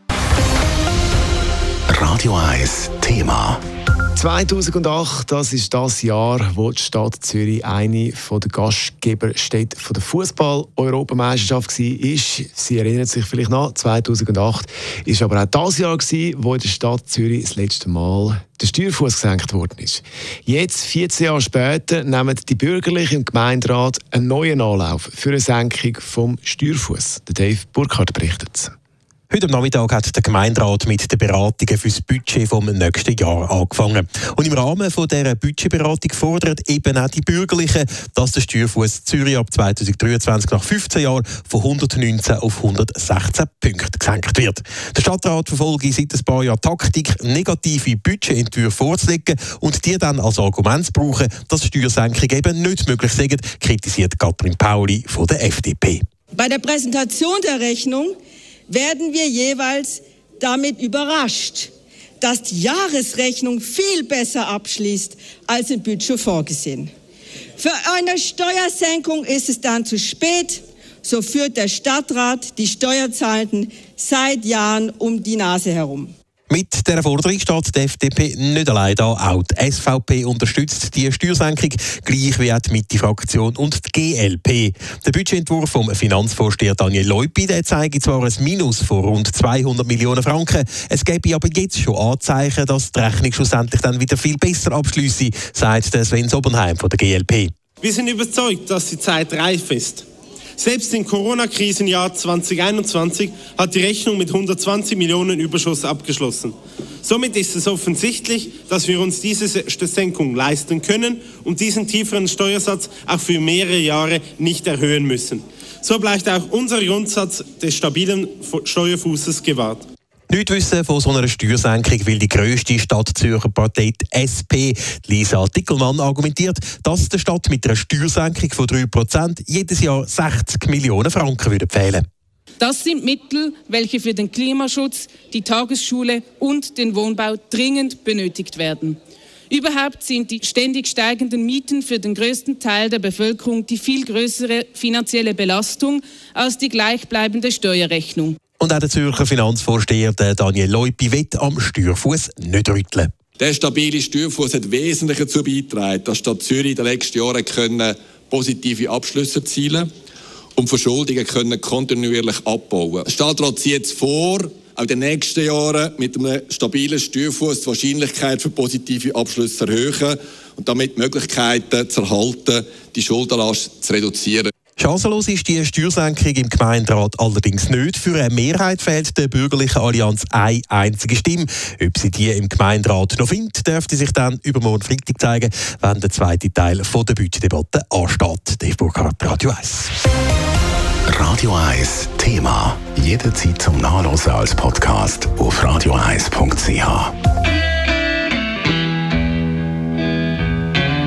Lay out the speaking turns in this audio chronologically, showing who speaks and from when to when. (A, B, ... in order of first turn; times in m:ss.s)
0:01.9-0:03.6 A
0:04.2-0:28.7 B
0:29.3-0:56.0 C
0:56.3-0:58.2 D
0:58.7-1:06.9 D
1:07.6-1:16.1 D
1:16.5-1:37.5 C
1:37.8-1:40.0 E
1:40.6-1:59.8 E
2:00.3-2:12.0 C
2:12.6-2:19.0 F
2:19.5-2:28.4 F
2:28.6-2:33.1 C
2:33.4-2:39.9 G
2:40.6-2:54.5 G
2:54.8-3:09.9 C
3:11.1-3:17.1 A